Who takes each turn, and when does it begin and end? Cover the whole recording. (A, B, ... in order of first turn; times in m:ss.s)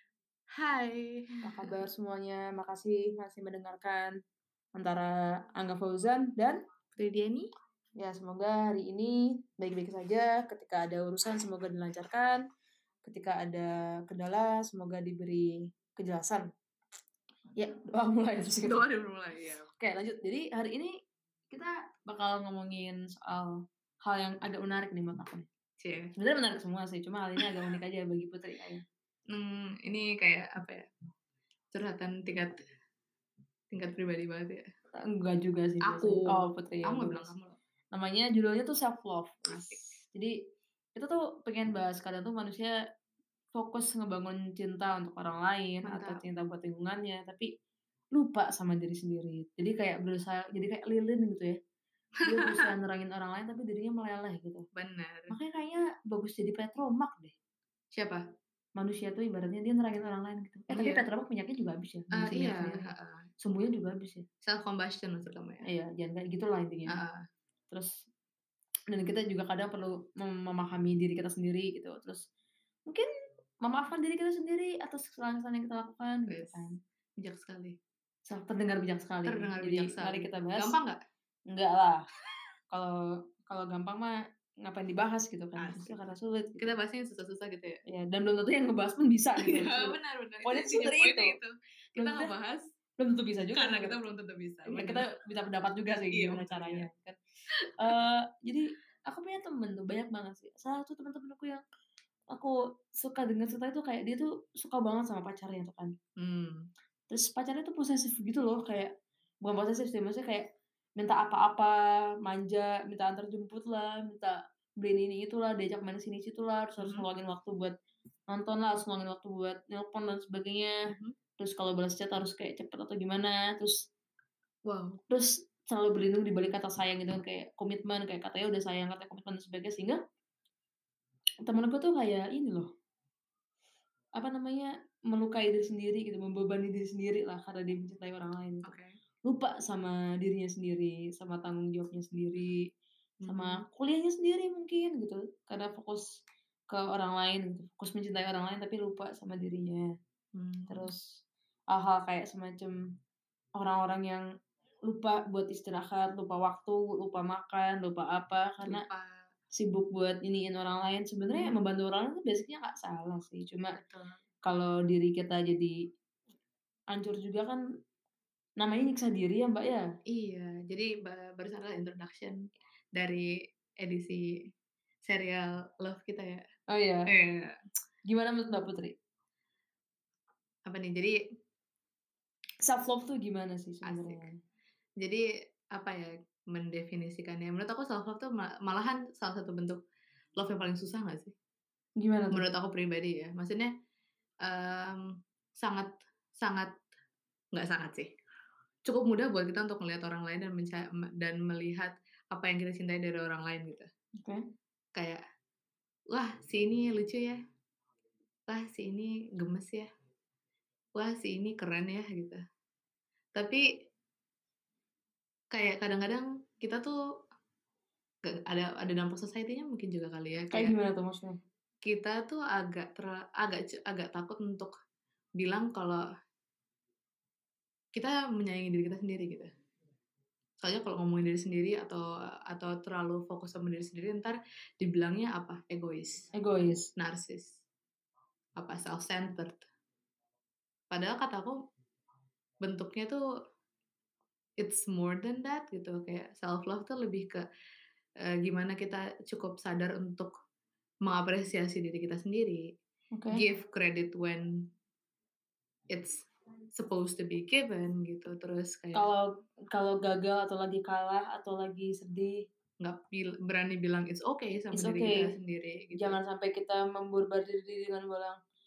0:00.5-0:01.8 A
0:01.4-0:04.2 B
0:04.8-0:06.6 B
0:07.0-0:07.5 A
0:08.0-0:12.4 B
0:13.0-0:16.5 B
0:17.6-0:18.8 B
0:18.6-0:19.7 A
0:19.8-0:20.9 B
0:21.5-0:25.5 B
0:25.8-0:26.1 A
0:26.2-0:28.8 B
0:29.3-0:30.9 A
0:31.7-0:32.6 A
0:33.7-0:34.6 A
0:35.1-0:37.3 B
0:35.8-0:37.6 A
0:37.9-0:40.3 B
0:39.5-0:39.9 A
0:41.0-0:42.7 B
0:43.5-0:47.5 B
0:45.8-0:46.2 A
0:48.2-0:51.6 B
0:52.2-0:54.6 B
0:52.3-0:52.7 A
0:54.8-0:55.4 A
0:55.3-0:57.4 B
0:58.0-0:58.2 A
0:58.8-1:04.3 B
1:00.7-1:01.0 A
1:02.1-1:03.3 A
1:04.4-1:05.7 A
1:05.6-1:07.0 B
1:06.9-1:07.2 A
1:08.9-1:12.2 B
1:13.6-1:16.8 B
1:16.3-1:17.8 A
1:18.3-1:20.8 B
1:19.2-1:21.0 A
1:21.5-1:22.0 B
1:22.7-1:26.7 B
1:25.6-1:26.0 A
1:26.6-1:27.8 A
1:27.9-1:31.4 B
1:29.4-1:32.6 A
1:32.0-1:32.3 B
1:33.0-1:34.0 B
1:33.5-1:35.1 A
1:34.7-1:37.2 B
1:36.1-1:36.9 A
1:37.6-1:38.0 A
1:37.8-1:41.6 B
1:42.3-1:46.0 B
1:46.2-1:46.7 A
1:47.1-1:48.9 B
1:49.4-1:51.7 B
1:52.2-1:57.8 B
1:56.8-1:57.1 A
1:58.3-2:00.8 B
2:00.9-2:01.2 A
2:01.4-2:03.9 B
2:04.7-2:05.0 A
2:05.1-2:10.0 B
2:11.5-2:12.7 B
2:14.2-2:18.7 B
2:18.6-2:19.0 A
2:19.2-2:22.6 B
2:23.2-2:23.6 A
2:23.3-2:29.9 B
2:30.3-2:30.9 A
2:30.7-2:31.1 B
2:31.7-2:32.8 B
2:33.6-2:34.2 B
2:34.9-2:38.8 B
2:38.6-2:39.3 A
2:39.6-2:43.7 B
2:41.3-2:41.6 A
2:43.8-2:44.2 A
2:44.5-2:45.8 B
2:46.9-2:47.6 B
2:48.6-2:49.8 B
2:50.1-2:52.4 A
2:53.0-2:53.3 A
2:53.8-2:54.2 A
2:55.1-2:56.4 A
2:56.7-2:57.1 B
2:57.1-2:57.6 A
2:58.1-2:59.0 B
3:00.7-3:01.2 A
3:02.6-3:04.3 B
3:03.8-3:04.3 A
3:05.0-3:09.8 A
3:10.4-3:11.3 A
3:12.0-3:12.4 B
3:12.3-3:13.7 A
3:14.4-3:15.0 A
3:15.6-3:16.7 A
3:17.5-3:18.1 A
3:18.9-3:23.9 A
3:25.0-3:25.2 A
3:26.1-3:27.4 A
3:28.5-3:29.9 A
3:31.0-3:32.4 A
3:33.4-3:33.6 A
3:35.5-3:37.0 A
3:38.3-3:40.7 A
3:40.5-3:41.4 B
3:41.8-3:44.7 A
3:45.4-3:46.0 A
3:48.0-3:49.5 A
3:50.6-3:56.3 A
3:56.3-3:56.9 B
3:57.0-3:57.6 A
3:58.6-3:59.6 A
4:00.9-4:01.5 A
4:02.6-4:03.2 A
4:04.6-4:07.5 A
4:08.2-4:10.3 A
4:11.0-4:12.6 A
4:13.1-4:13.4 B
4:13.3-4:14.5 A
4:15.9-4:16.2 A
4:16.8-4:19.1 A
4:19.0-4:22.4 B
4:22.8-4:26.2 A
4:24.7-4:25.3 B
4:26.0-4:28.4 B